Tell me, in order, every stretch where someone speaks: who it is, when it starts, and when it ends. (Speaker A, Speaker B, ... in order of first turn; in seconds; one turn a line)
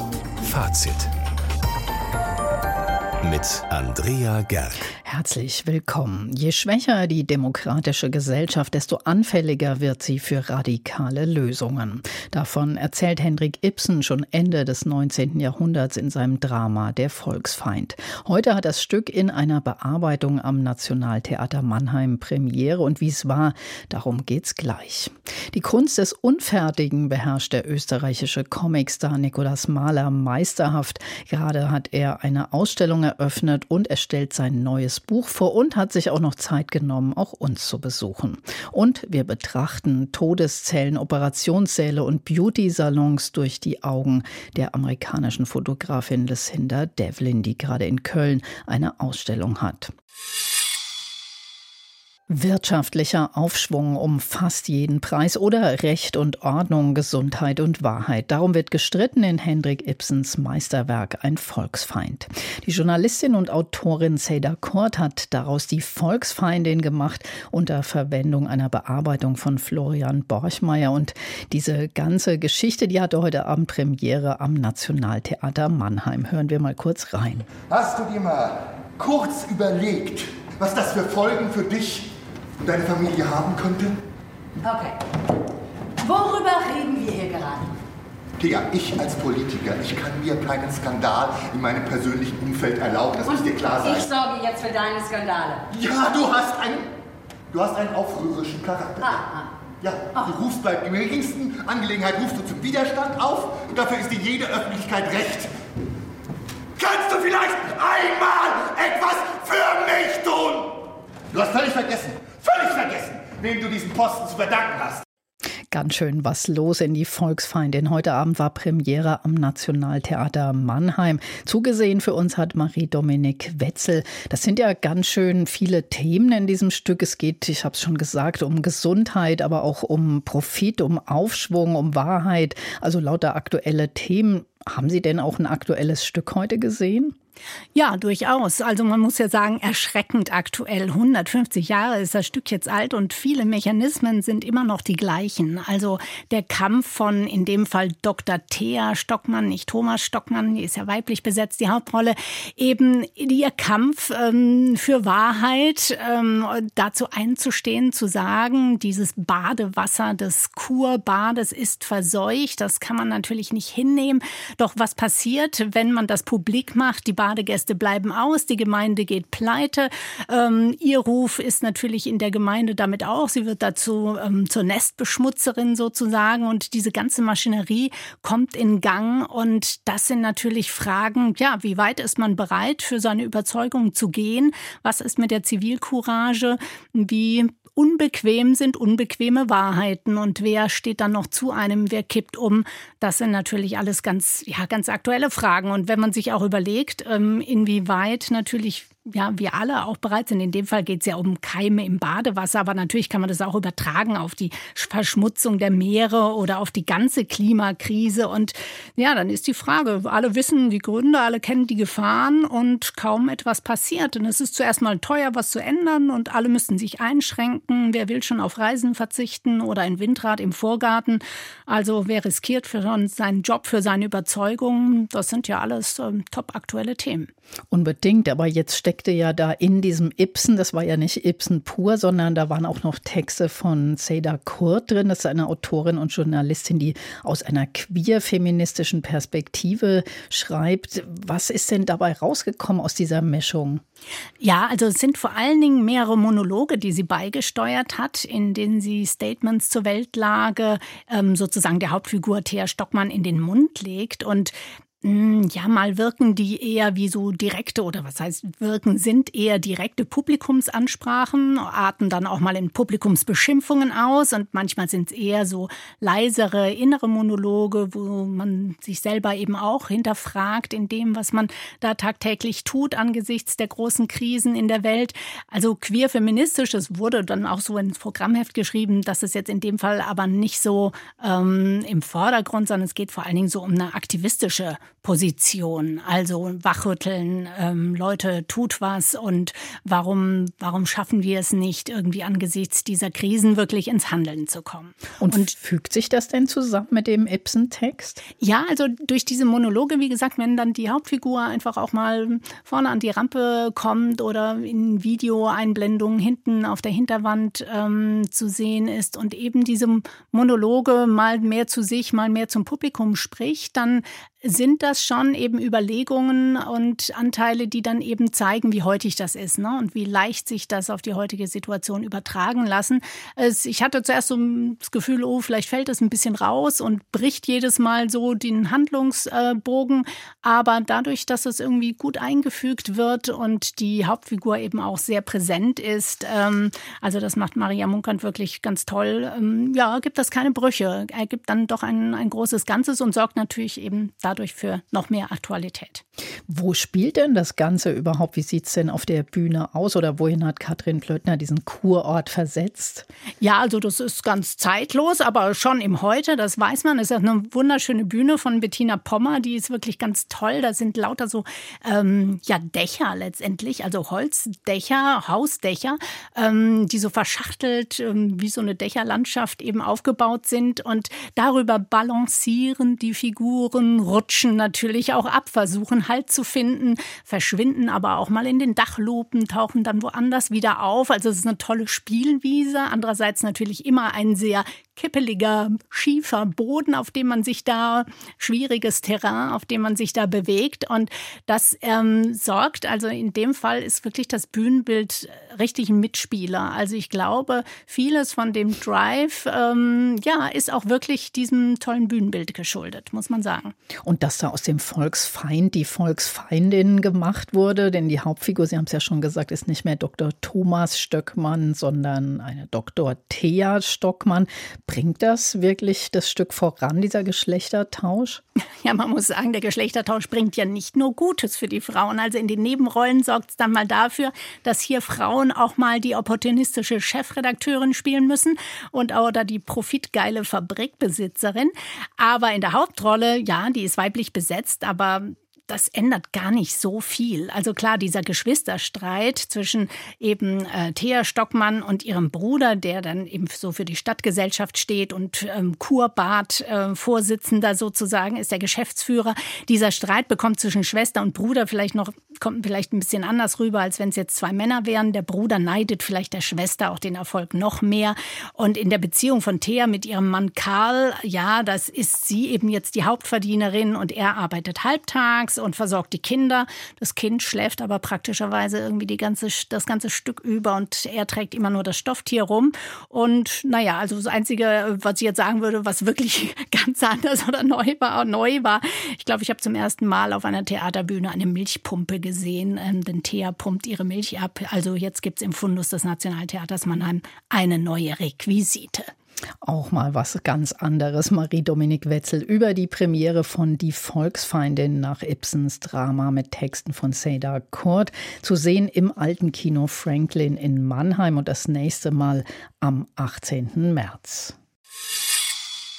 Speaker A: 0.4-1.1
Speaker A: 3.2-4.8
Speaker B: 5.0-49.9
Speaker B: 52.3-77.5
Speaker C: 77.7-84.0
Speaker D: 84.6-85.0
Speaker D: 86.0-87.7
Speaker C: 88.4-94.1
Speaker D: 93.2-95.6
Speaker C: 95.7-96.9
Speaker C: 97.5-99.2
Speaker D: 99.0-99.5
Speaker C: 99.8-105.5
Speaker C: 106.8-115.0
Speaker B: 115.7-137.2
Speaker E: 137.7-227.3
Speaker B: 227.7-243.8
Speaker E: 244.4-295.5
Speaker B: 295.2-298.2
Speaker E: 298.4-346.0
Speaker B: 346.5-353.1
Speaker E: 353.4-403.7
Speaker B: 404.0-418.4
Speaker E: 418.8-489.1
Speaker B: 489.6-504.6